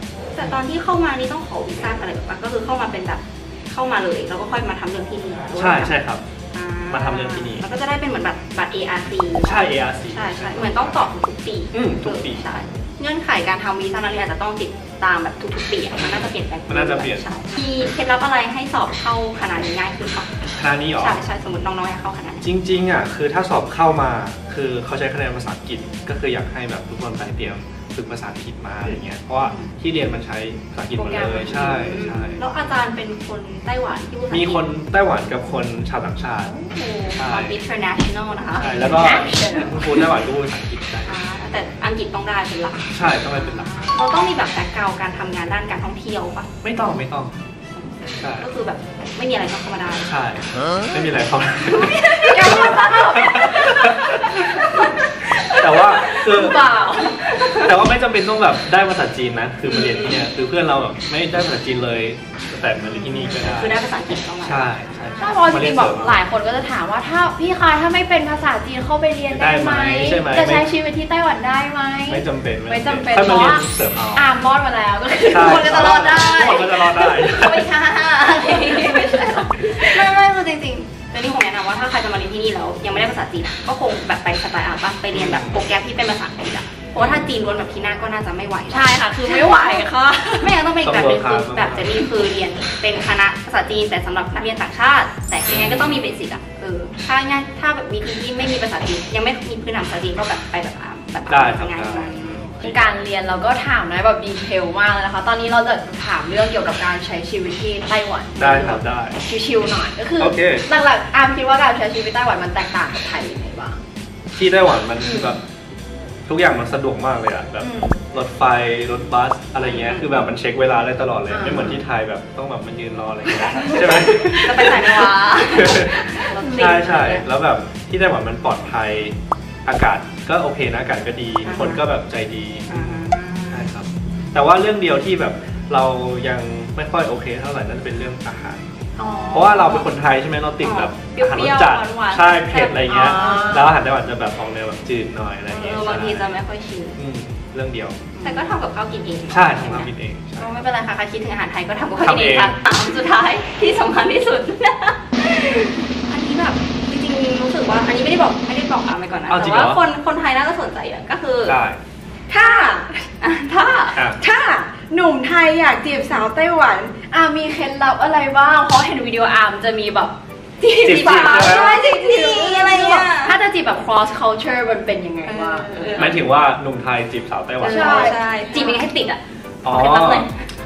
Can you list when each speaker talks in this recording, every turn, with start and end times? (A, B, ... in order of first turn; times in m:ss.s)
0:00.4-0:06.0 A
0:05.6-0:06.2 B
0:06.5-0:20.3 A
0:06.9-0:07.7 B
0:09.4-0:11.1 B
0:11.7-0:12.5 B
0:16.0-0:17.3 B
0:20.6-0:21.2 B
0:20.9-0:22.4 A
0:22.4-0:32.4 B
0:29.4-0:29.7 A
0:31.0-0:32.4 C
0:31.9-0:34.7 A
0:34.3-0:36.6 B
0:36.5-0:37.2 C
0:37.2-0:37.6 B
0:37.2-0:38.8 A
0:38.6-0:41.1 B
0:38.6-0:40.0 C
0:41.0-0:46.5 A
0:42.9-0:44.0 B
0:46.6-0:47.4 B
0:48.2-0:48.5 B
0:48.2-0:50.1 A
0:50.0-0:54.3 B
0:51.7-0:52.9 A
0:52.2-0:54.8 C
0:55.6-0:56.7 B
0:55.9-0:56.2 A
0:56.0-0:57.2 C
0:57.3-0:57.7 A
0:57.5-1:03.8 B
0:59.6-1:00.2 A
1:03.3-1:04.9 A
1:04.4-1:06.2 B
1:05.2-1:16.2 C
1:09.3-1:10.7 B
1:12.1-1:14.3 B
1:15.3-1:17.7 B
1:15.3-1:42.5 A
1:18.3-1:20.1 C
1:25.1-1:25.7 B
1:27.0-1:27.3 B
1:28.7-1:30.6 C
1:30.8-1:32.0 B
1:35.5-1:36.1 B
1:41.3-1:42.9 B
1:42.6-1:53.8 C
1:48.4-1:49.2 B
1:50.2-1:50.7 B
1:54.3-1:55.4 B
1:56.3-2:18.7 B
1:57.6-1:58.0 C
1:59.6-2:00.3 A
2:01.3-2:01.8 C
2:03.9-2:07.3 A
2:06.4-2:06.7 C
2:11.4-2:11.8 A
2:12.7-2:13.7 A
2:19.0-2:19.7 C
2:19.0-2:19.9 A
2:19.3-2:26.3 B
2:20.6-2:23.7 A
2:22.9-2:23.8 C
2:25.5-2:27.0 A
2:27.0-2:28.1 B
2:28.2-2:28.6 C
2:28.2-2:41.6 A
2:29.3-2:30.7 B
2:32.0-2:32.6 B
2:39.3-2:39.8 B
2:41.5-2:41.8 B
2:42.3-2:43.0 C
2:43.2-2:44.0 A
2:43.9-2:44.2 B
2:44.1-2:56.2 C
2:50.6-2:53.4 A
2:50.8-2:51.8 B
2:55.3-2:56.2 A
2:56.0-2:58.2 B
2:57.6-3:00.4 A
2:57.6-2:59.2 C
2:59.6-3:00.3 B